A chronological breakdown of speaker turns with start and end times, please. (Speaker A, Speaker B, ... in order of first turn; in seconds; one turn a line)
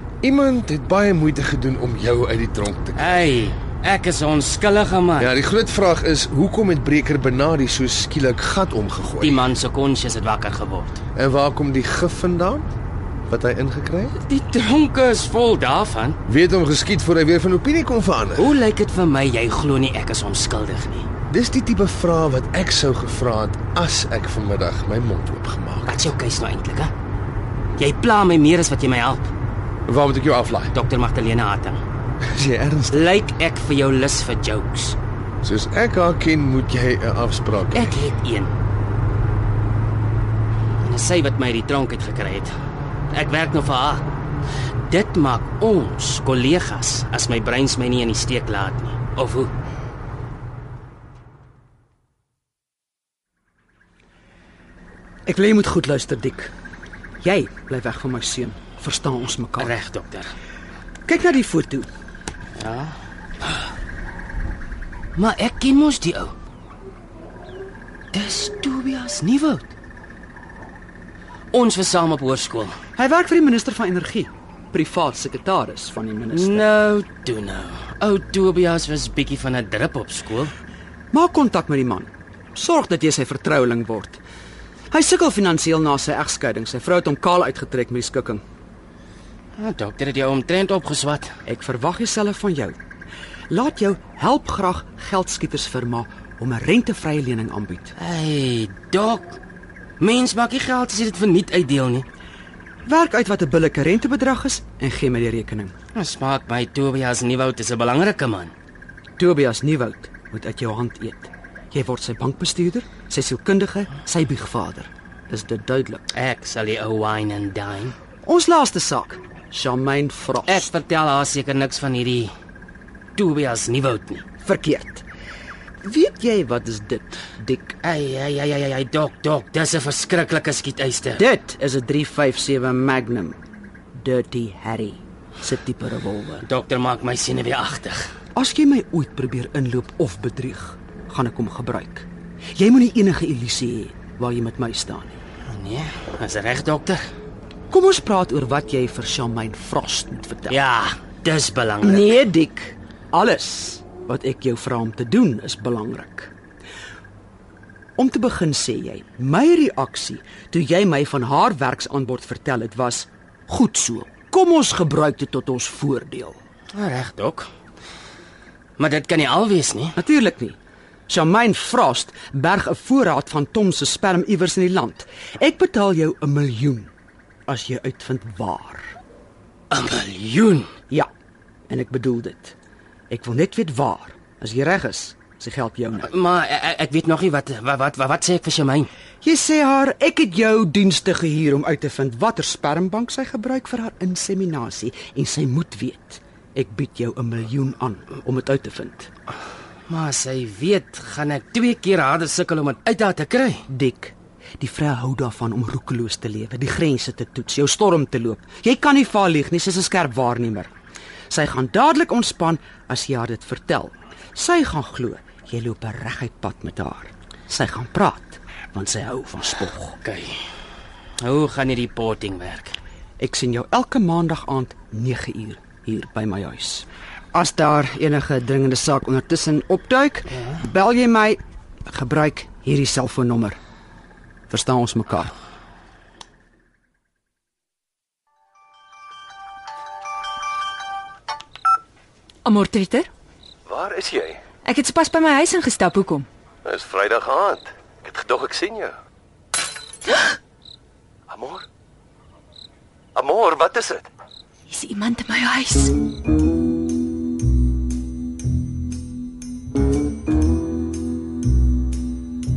Speaker A: 0.2-3.2
Speaker B: 3.0-5.3
Speaker A: 5.2-9.4
Speaker B: 9.2-11.0
Speaker A: 11.2-12.6
Speaker A: 13.3-14.1
Speaker B: 14.2-16.2
Speaker A: 16.3-18.5
Speaker B: 18.4-21.1
Speaker A: 21.3-26.1
Speaker B: 25.9-26.9
Speaker B: 27.8-29.3
Speaker A: 29.9-30.7
Speaker B: 30.7-31.8
Speaker A: 32.4-33.1
Speaker B: 32.9-35.0
Speaker A: 35.4-38.0
Speaker B: 37.7-38.5
Speaker B: 40.8-42.5
Speaker B: 43.1-44.0
Speaker B: 44.8-49.5
Speaker C: 55.2-56.5
Speaker C: 57.2-59.7
Speaker B: 59.6-60.3
Speaker C: 61.0-61.9
Speaker B: 62.6-62.9
Speaker B: 65.2-66.3
Speaker B: 68.1-69.7
Speaker B: 71.5-72.7
Speaker C: 73.0-76.7
Speaker B: 76.3-80.5
Speaker C: 81.1-84.2
Speaker C: 84.9-88.4
Speaker B: 89.6-91.3
Speaker C: 91.5-92.8
Speaker C: 93.5-97.9
Speaker B: 98.0-99.4
Speaker B: 100.0-102.0
Speaker C: 102.8-105.7
Speaker B: 105.9-108.5
Speaker C: 109.2-116.0
Speaker B: 116.1-117.9
Speaker C: 118.2-120.7
Speaker B: 120.5-122.3
Speaker B: 123.2-124.2
Speaker C: 124.4-125.0
Speaker C: 125.8-127.8
Speaker B: 127.8-131.2
Speaker C: 131.2-133.4
Speaker C: 133.9-136.4
Speaker B: 136.4-138.1
Speaker C: 138.3-145.2
Speaker B: 145.5-147.0
Speaker C: 147.7-150.6
Speaker B: 150.5-152.2
Speaker C: 151.8-156.3
Speaker C: 158.0-166.4
Speaker B: 166.7-167.5
Speaker B: 168.8-170.0
Speaker C: 170.0-170.6
Speaker C: 171.1-176.9
Speaker C: 177.5-178.9
Speaker B: 179.7-180.7
Speaker C: 181.7-182.6
Speaker C: 183.1-186.1
Speaker B: 186.0-188.9
Speaker C: 189.2-199.1
Speaker B: 199.9-203.6
Speaker C: 203.7-210.7
Speaker C: 211.3-220.0
Speaker B: 220.0-220.4
Speaker B: 221.2-222.7
Speaker C: 223.2-233.6
Speaker C: 234.5-235.3
Speaker D: 242.4-243.1
Speaker E: 243.7-244.4
Speaker D: 244.6-246.2
Speaker E: 246.6-248.9
Speaker E: 251.3-251.6
Speaker E: 253.1-254.1
Speaker D: 254.7-255.9